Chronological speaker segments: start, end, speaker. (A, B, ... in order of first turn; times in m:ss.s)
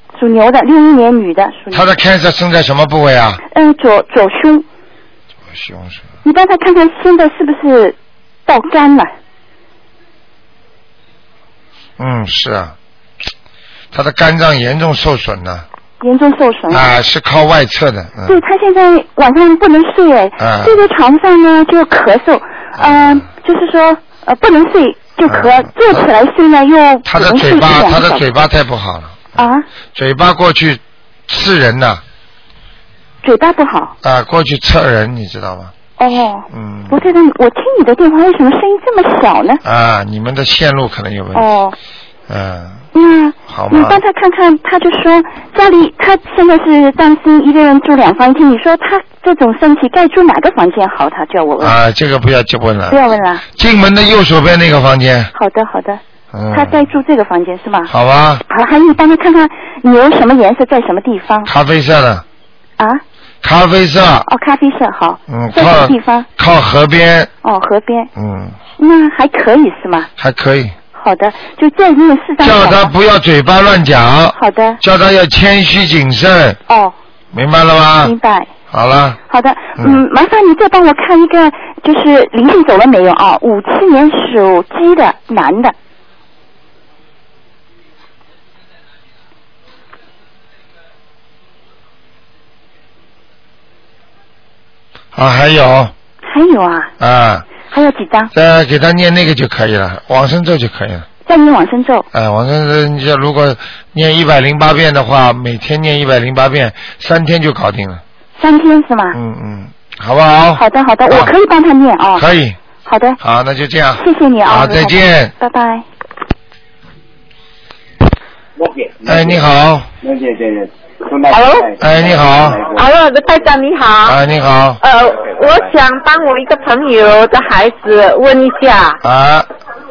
0:00.1-0:01.9 A
0:01.7-0:03.4 B
0:03.5-0:04.6 A
0:05.5-0:06.0 B
0:06.2-0:09.1 A
0:12.0-0:12.7 B
0:13.9-0:15.6 B
0:16.0-0:16.9 A
0:16.7-0:18.4 B
0:18.2-0:28.3 A
0:20.4-0:20.8 B
0:22.8-0:23.2 B
0:25.2-0:26.0 B
0:27.0-0:29.4 B
0:29.4-0:29.6 A
0:29.9-0:32.0 B
0:33.2-0:33.9 A
0:34.0-0:35.7 B
0:36.0-0:39.6 A
0:36.5-0:37.0 B
0:39.6-0:41.4 B
0:41.3-0:41.8 A
0:42.3-0:42.8 B
0:42.9-0:51.8 A
0:43.5-0:44.0 B
0:51.6-0:53.0 B
0:52.9-0:53.4 A
0:53.5-0:55.3 B
0:55.3-0:56.0 A
0:56.3-0:56.8 B
0:56.5-0:57.9 A
0:57.9-0:58.4 B
0:58.5-1:01.5 A
1:01.4-1:02.2 B
1:03.4-1:04.3 B
1:04.2-1:06.3 A
1:05.3-1:07.3 B
1:07.4-1:08.1 A
1:08.1-1:08.6 B
1:08.8-1:10.1 A
1:10.2-1:10.7 B
1:10.9-1:12.9 A
1:12.4-1:16.6 B
1:14.3-1:14.8 A
1:16.7-1:16.9 A
1:17.3-1:18.1 B
1:18.0-1:18.5 A
1:18.7-1:19.2 B
1:19.3-1:25.7 A
1:35.1-1:35.9 B
1:36.2-1:36.9 A
1:37.0-1:37.4 B
1:37.7-1:38.3 A
1:38.3-1:41.0 B
1:41.2-1:42.0 A
1:42.1-1:48.0 B
1:48.4-1:49.2 A
1:49.1-1:51.3 B
1:50.5-1:52.2 A
1:52.2-1:52.6 B
1:52.8-1:53.2 A
1:53.2-1:55.3 B
1:54.0-1:55.8 A
1:58.6-1:59.4 C
1:59.0-1:59.9 B
2:00.0-2:02.9 C
2:01.3-2:01.7 D
2:01.8-2:02.6 B
2:02.7-2:04.2 D
2:04.0-2:04.8 B
2:04.8-2:09.0 D
2:09.0-2:09.5 B